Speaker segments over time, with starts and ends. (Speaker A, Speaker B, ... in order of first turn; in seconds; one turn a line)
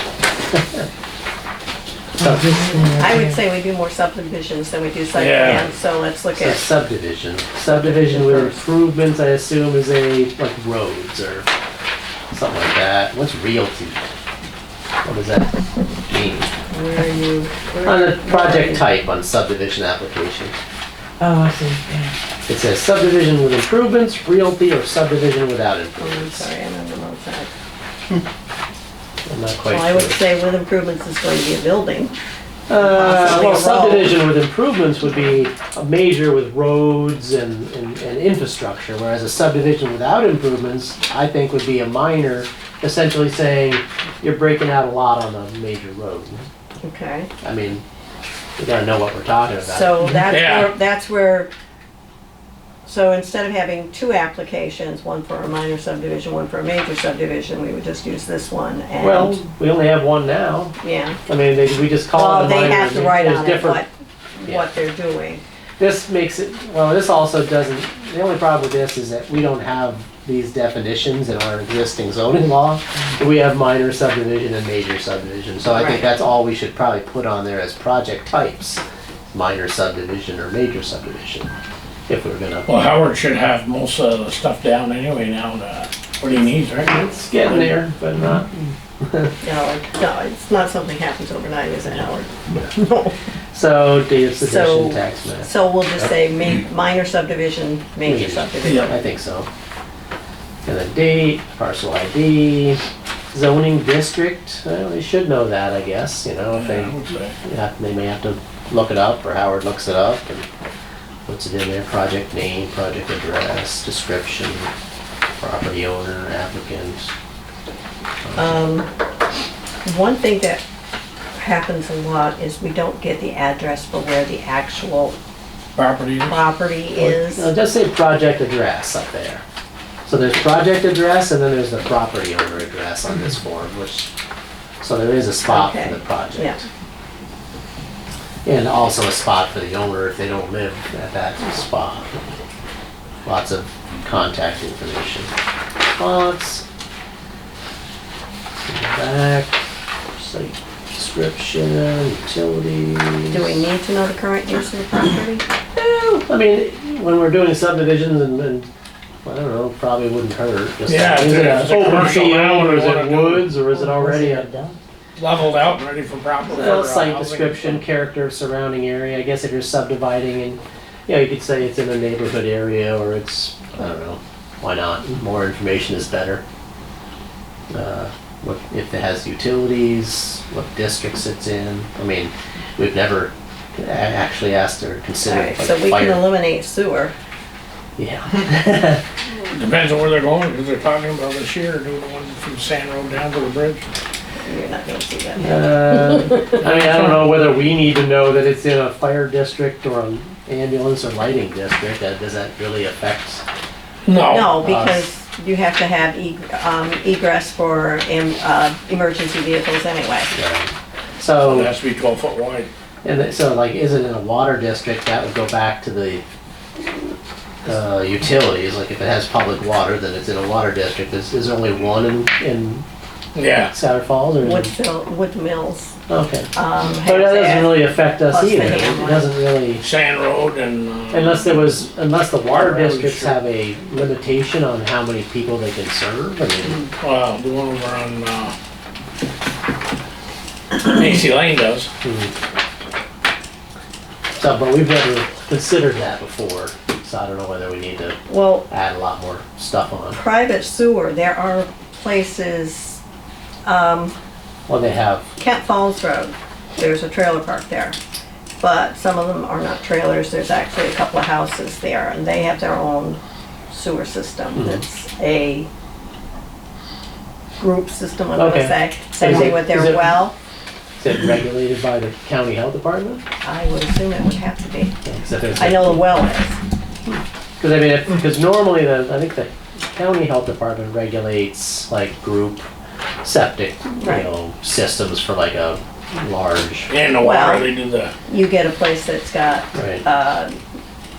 Speaker A: 2.2-3.4
Speaker B: 3.0-6.7
Speaker C: 5.1-5.7
Speaker D: 6.3-11.5
Speaker B: 7.7-8.6
Speaker D: 12.3-14.0
Speaker D: 15.0-15.5
Speaker D: 16.1-16.5
Speaker B: 16.7-18.9
Speaker D: 17.8-20.6
Speaker A: 21.2-22.1
Speaker D: 22.5-26.5
Speaker B: 26.0-27.5
Speaker D: 29.2-30.2
Speaker B: 29.7-32.1
Speaker D: 32.7-46.5
Speaker B: 32.8-34.2
Speaker B: 46.8-47.3
Speaker D: 47.4-47.8
Speaker D: 48.6-50.1
Speaker B: 49.6-51.5
Speaker C: 50.3-50.7
Speaker B: 52.8-59.4
Speaker D: 59.0-60.7
Speaker B: 60.8-61.2
Speaker D: 61.3-63.8
Speaker B: 62.1-65.4
Speaker D: 65.8-81.5
Speaker B: 75.7-76.1
Speaker D: 82.1-82.7
Speaker C: 82.7-87.8
Speaker D: 86.8-89.3
Speaker B: 89.4-93.1
Speaker D: 93.5-95.5
Speaker B: 94.4-99.0
Speaker D: 98.0-99.5
Speaker C: 98.6-98.9
Speaker D: 100.7-110.5
Speaker C: 106.5-107.3
Speaker D: 111.2-114.7
Speaker D: 115.4-117.1
Speaker D: 118.2-118.6
Speaker B: 118.4-118.9
Speaker B: 119.8-120.6
Speaker B: 121.3-125.2
Speaker C: 125.8-126.4
Speaker B: 126.2-127.5
Speaker D: 127.0-129.4
Speaker D: 130.0-134.1
Speaker D: 134.8-136.6
Speaker B: 135.5-136.6
Speaker D: 138.4-142.2
Speaker D: 143.2-145.3
Speaker D: 146.0-146.6
Speaker D: 148.7-149.6
Speaker D: 150.1-153.6
Speaker B: 153.3-156.2
Speaker D: 156.3-158.7
Speaker D: 159.2-164.5
Speaker C: 160.8-163.5
Speaker A: 163.7-164.8
Speaker C: 165.2-167.8
Speaker D: 166.5-176.4
Speaker D: 177.7-186.3
Speaker B: 185.2-187.1
Speaker D: 188.0-189.0
Speaker C: 189.5-193.8
Speaker B: 194.4-196.6
Speaker D: 195.4-203.4
Speaker C: 204.1-204.6
Speaker B: 204.3-210.3
Speaker D: 204.6-205.1
Speaker D: 210.3-211.7
Speaker C: 211.4-212.7
Speaker D: 213.0-216.2
Speaker D: 217.6-222.8
Speaker C: 223.3-223.7
Speaker D: 223.7-224.7
Speaker B: 224.4-225.9
Speaker D: 226.1-229.8
Speaker B: 226.5-229.3
Speaker C: 229.8-231.7
Speaker D: 231.1-236.8
Speaker C: 232.5-233.3
Speaker B: 236.6-236.9
Speaker C: 237.0-238.5
Speaker C: 240.7-241.9
Speaker D: 242.0-242.3
Speaker D: 244.4-250.2
Speaker B: 248.3-248.7
Speaker B: 250.1-253.0
Speaker B: 253.6-254.1
Speaker D: 254.7-255.3
Speaker B: 255.4-258.0
Speaker B: 258.6-263.2
Speaker B: 263.7-265.7
Speaker D: 264.6-264.8
Speaker B: 267.6-270.4
Speaker D: 268.4-270.2
Speaker D: 271.0-273.2
Speaker B: 273.4-274.9
Speaker D: 275.0-276.1
Speaker B: 275.6-276.6
Speaker D: 277.1-282.7
Speaker D: 283.2-286.9
Speaker B: 284.0-284.3
Speaker C: 286.9-288.1
Speaker B: 287.2-287.7
Speaker B: 288.2-290.6
Speaker D: 289.7-290.0